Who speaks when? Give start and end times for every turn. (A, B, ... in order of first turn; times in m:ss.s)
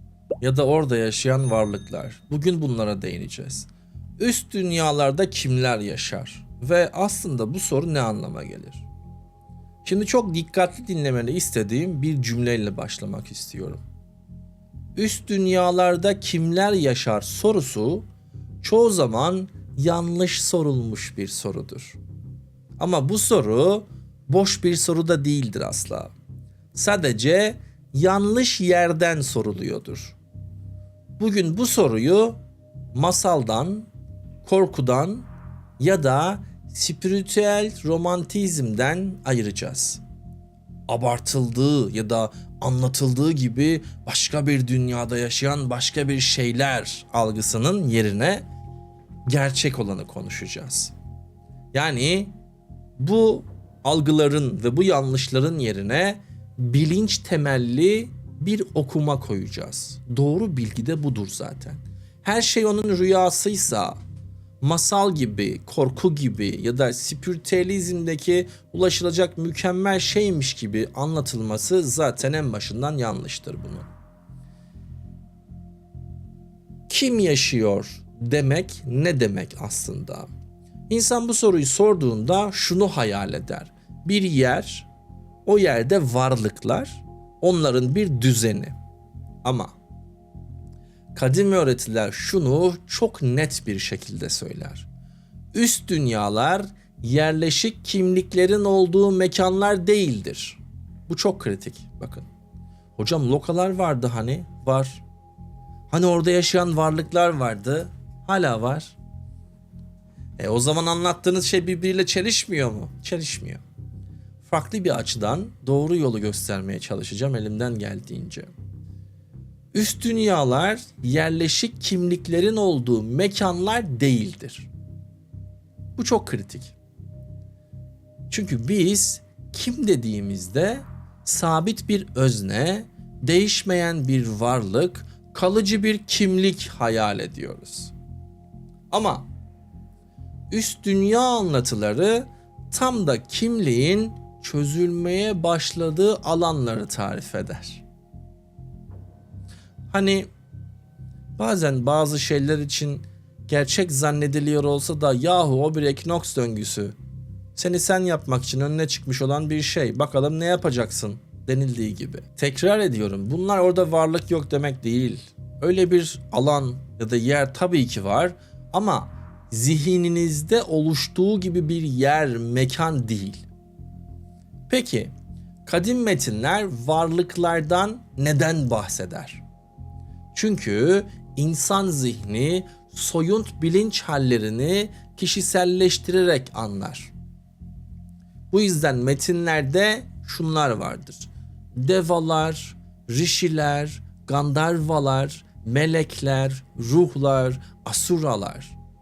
0:00.4-0:08.8 A
0:09.8-0:13.8 A
0:15.0-0:18.1 A
0:18.6-0:22.0 A
0:22.8-0:26.1 A
0:26.7-0:30.2 A
0:31.2-0:32.4 A
0:32.9-0:33.9 A
0:34.4-0:35.3 A
0:35.8-0:40.0 A
0:40.9-0:48.5 A
0:49.3-0:50.9 A
0:51.7-0:52.3 A
0:53.0-1:04.0 A
1:04.6-1:13.9 A
1:16.9-1:20.3 A
1:20.9-1:24.9 A
1:25.5-1:28.8 A
1:29.4-1:29.8 A
1:31.2-1:34.9 A
1:35.5-1:42.3 A
1:43.0-1:45.0 A
1:45.9-1:49.0 A
1:50.4-1:53.6 A
1:54.4-1:58.5 A
1:59.7-2:04.7 A
2:06.0-2:06.8 A
2:08.3-2:17.9 A
2:18.9-2:19.3 A
2:20.5-2:27.8 A
2:29.9-2:30.3 A
2:31.4-2:37.0 A
2:37.6-2:53.4 A
2:54.7-2:55.1 A
2:55.7-2:59.4 A
3:00.3-3:07.1 A
3:08.5-3:18.8 A